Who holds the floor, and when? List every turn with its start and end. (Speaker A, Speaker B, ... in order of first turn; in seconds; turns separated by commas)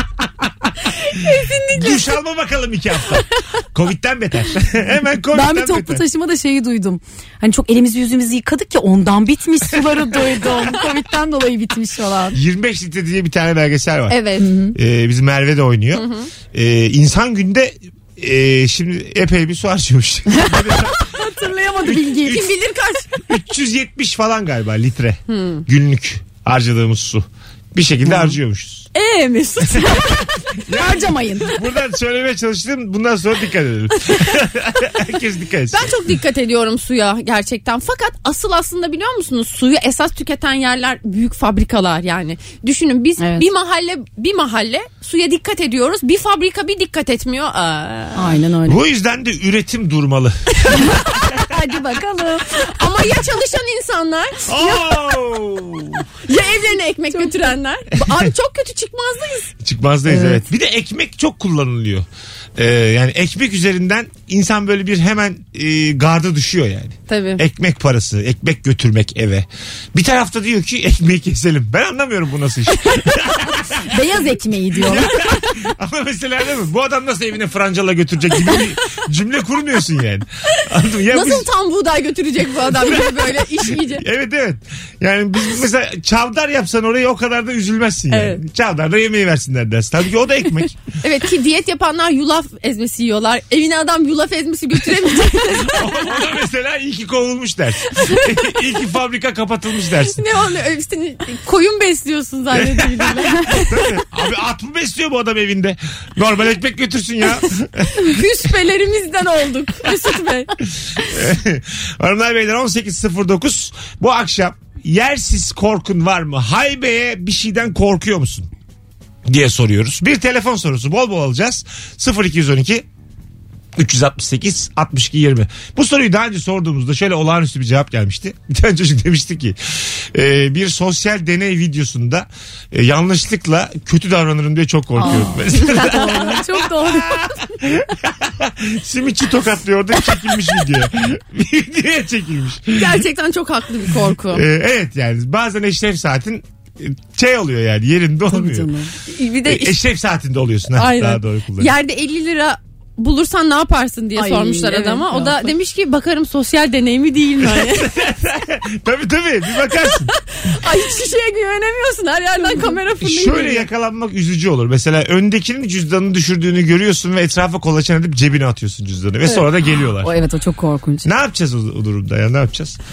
Speaker A: 1.0-2.1, Speaker B: 1.7-6.0, Speaker C: 5.3-12.4, Speaker B: 12.3-14.2, Speaker A: 14.1-14.5, Speaker C: 14.4-14.8, Speaker B: 14.7-21.0, Speaker A: 15.9-16.3, Speaker C: 20.4-22.4, Speaker B: 21.8-22.5, Speaker A: 22.2-23.2, Speaker B: 23.2-28.9, Speaker A: 25.3-25.6, Speaker C: 29.0-31.6, Speaker A: 29.6-30.0, Speaker B: 29.7-30.0, Speaker B: 30.6-35.9, Speaker A: 35.7-48.4, Speaker C: 43.2-43.5, Speaker C: 48.1-48.8, Speaker B: 48.7-51.4, Speaker C: 50.8-52.7, Speaker A: 52.7-54.5, Speaker B: 54.5-56.1, Speaker A: 56.3-59.5, Speaker C: 57.1-57.4, Speaker B: 59.6-74.2, Speaker C: 60.1-60.4, Speaker A: 67.1-67.4, Speaker C: 73.9-75.6, Speaker B: 74.7-81.5, Speaker A: 81.1-84.1, Speaker B: 82.7-90.8, Speaker A: 88.1-88.4, Speaker A: 91.0-96.1, Speaker B: 95.6-100.2, Speaker A: 100.1-103.9, Speaker B: 102.5-108.1, Speaker A: 107.9-110.5, Speaker B: 111.0-118.5, Speaker B: 119.3-122.9, Speaker B: 123.8-143.0, Speaker C: 135.0-137.2, Speaker A: 142.7-144.4, Speaker B: 144.3-148.7, Speaker C: 148.3-148.9, Speaker A: 149.1-149.8, Speaker B: 149.4-151.7, Speaker A: 150.8-157.9, Speaker C: 154.2-155.5, Speaker B: 157.4-160.1, Speaker A: 160.1-163.7, Speaker B: 163.0-170.1, Speaker C: 170.0-171.1, Speaker B: 171.1-172.8